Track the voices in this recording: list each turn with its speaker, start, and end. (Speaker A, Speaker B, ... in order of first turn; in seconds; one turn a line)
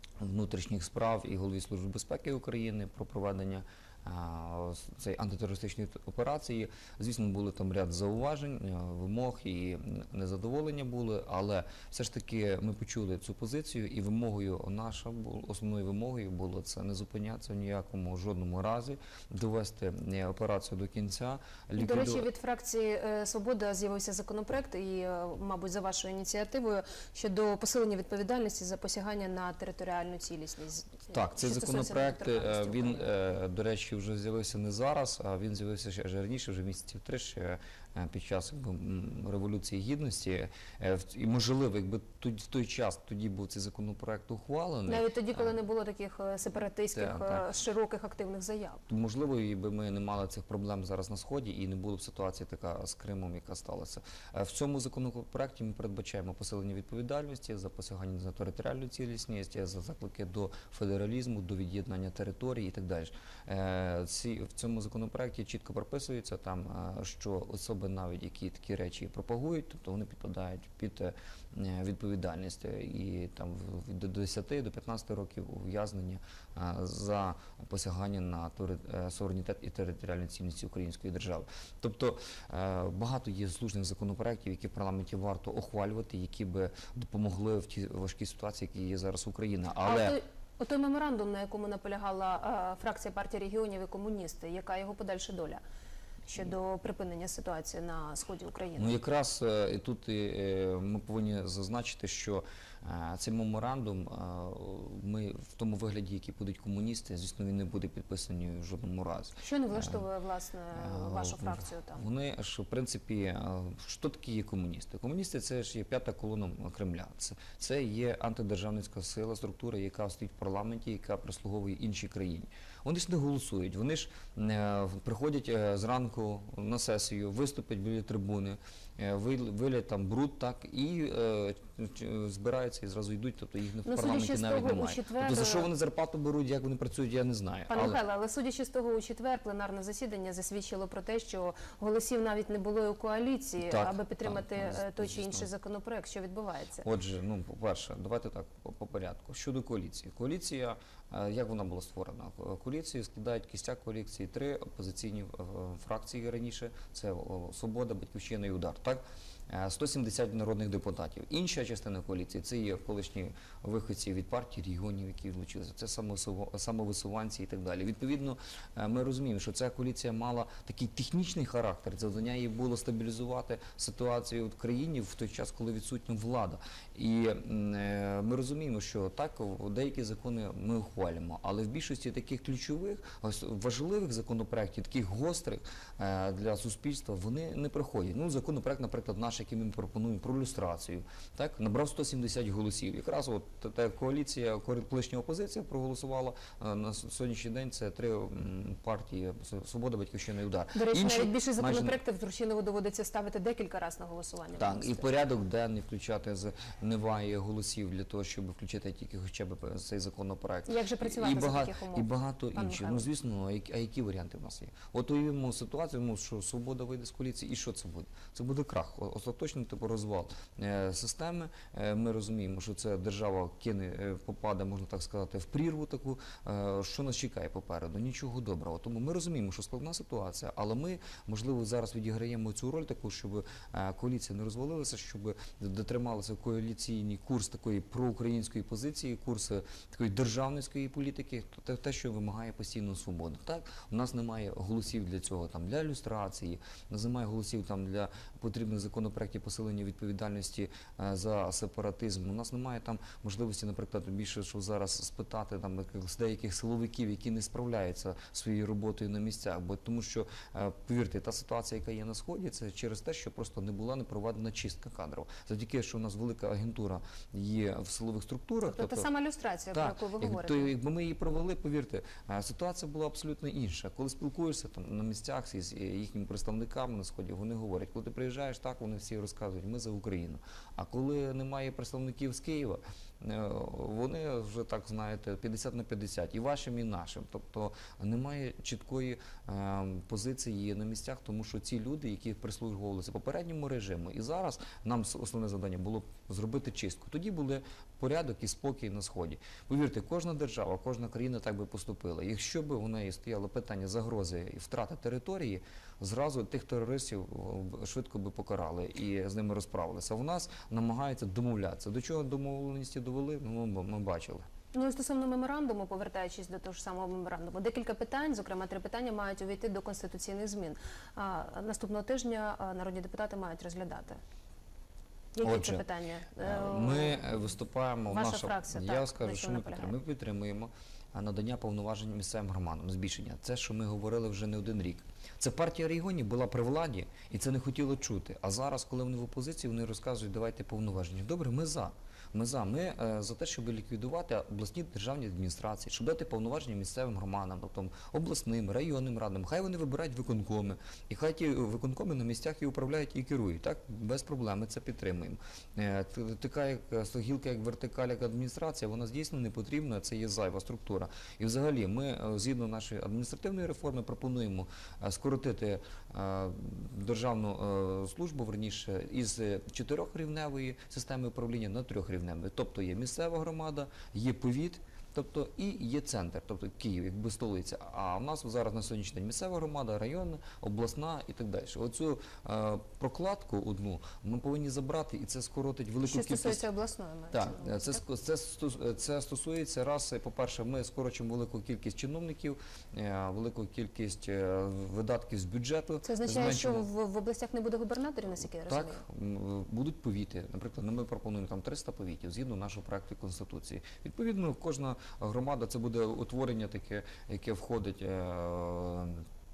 Speaker A: 0.2-22.3
Speaker B: 21.8-33.0
Speaker A: 31.1-45.6
Speaker B: 44.9-48.8
Speaker A: 46.9-47.5
Speaker A: 48.9-90.2
Speaker B: 89.8-95.6
Speaker B: 96.3-99.0
Speaker A: 98.8-110.0
Speaker B: 109.4-112.0
Speaker A: 110.8-138.0
Speaker B: 133.8-135.7
Speaker B: 137.7-146.9
Speaker A: 143.6-145.5
Speaker A: 146.8-202.0
Speaker B: 200.7-205.1
Speaker A: 204.6-269.1
Speaker B: 210.7-213.1
Speaker B: 268.7-270.7
Speaker A: 269.7-314.4
Speaker B: 314.7-324.2
Speaker B: 325.4-327.2
Speaker A: 325.4-325.8
Speaker A: 326.4-386.6
Speaker B: 328.1-330.0
Speaker B: 386.0-388.0
Speaker A: 387.3-396.9
Speaker B: 396.0-399.0
Speaker A: 398.7-409.2